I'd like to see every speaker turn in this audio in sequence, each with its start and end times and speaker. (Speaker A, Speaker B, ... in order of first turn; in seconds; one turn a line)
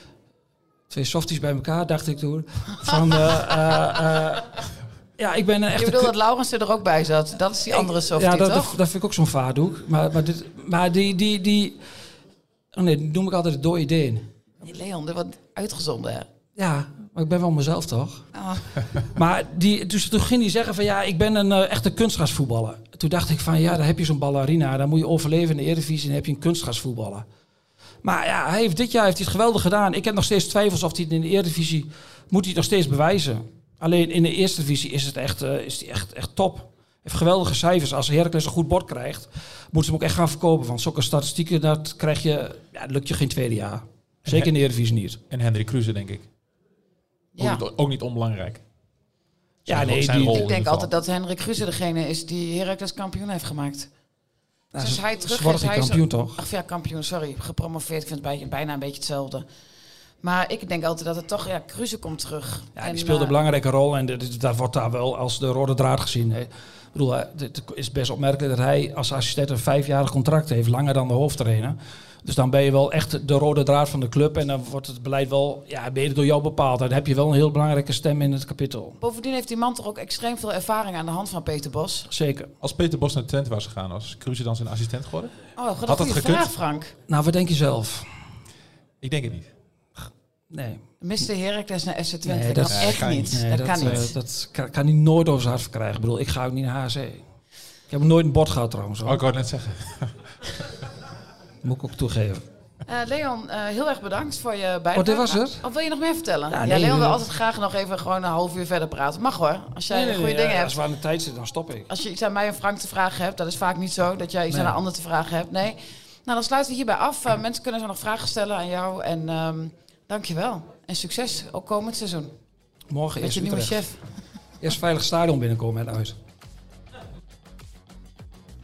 Speaker A: 0.9-4.6
Speaker B: 3.2-3.5
Speaker A: 5.2-6.1
Speaker B: 5.8-8.8
Speaker A: 7.7-11.8
Speaker A: 12.7-14.3
Speaker B: 14.6-16.3
Speaker A: 16.6-18.3
Speaker B: 18.3-18.8
Speaker A: 19.0-27.2
Speaker A: 28.0-45.2
Speaker C: 44.3-44.5
Speaker C: 45.3-46.3
Speaker B: 47.4-47.6
Speaker C: 47.4-48.6
Speaker C: 49.7-50.9
Speaker A: 49.7-50.5
Speaker B: 50.2-53.9
Speaker A: 54.7-56.4
Speaker B: 54.8-59.5
Speaker B: 60.2-63.4
Speaker A: 62.8-79.0
Speaker B: 79.0-82.1
Speaker A: 82.1-82.5
Speaker C: 82.6-85.3
Speaker B: 85.6-86.9
Speaker C: 85.8-86.5
Speaker A: 87.1-88.1
Speaker C: 89.0-89.5
Speaker A: 90.5-90.8
Speaker B: 91.0-94.1
Speaker A: 92.2-97.2
Speaker C: 92.7-94.0
Speaker A: 97.9-99.2
Speaker C: 99.0-100.9
Speaker A: 101.6-102.5
Speaker B: 102.9-110.8
Speaker A: 104.9-105.6
Speaker A: 106.5-107.2
Speaker A: 109.9-111.9
Speaker B: 111.9-122.3
Speaker A: 114.5-114.8
Speaker A: 122.9-123.8
Speaker B: 123.2-124.0
Speaker A: 124.6-126.2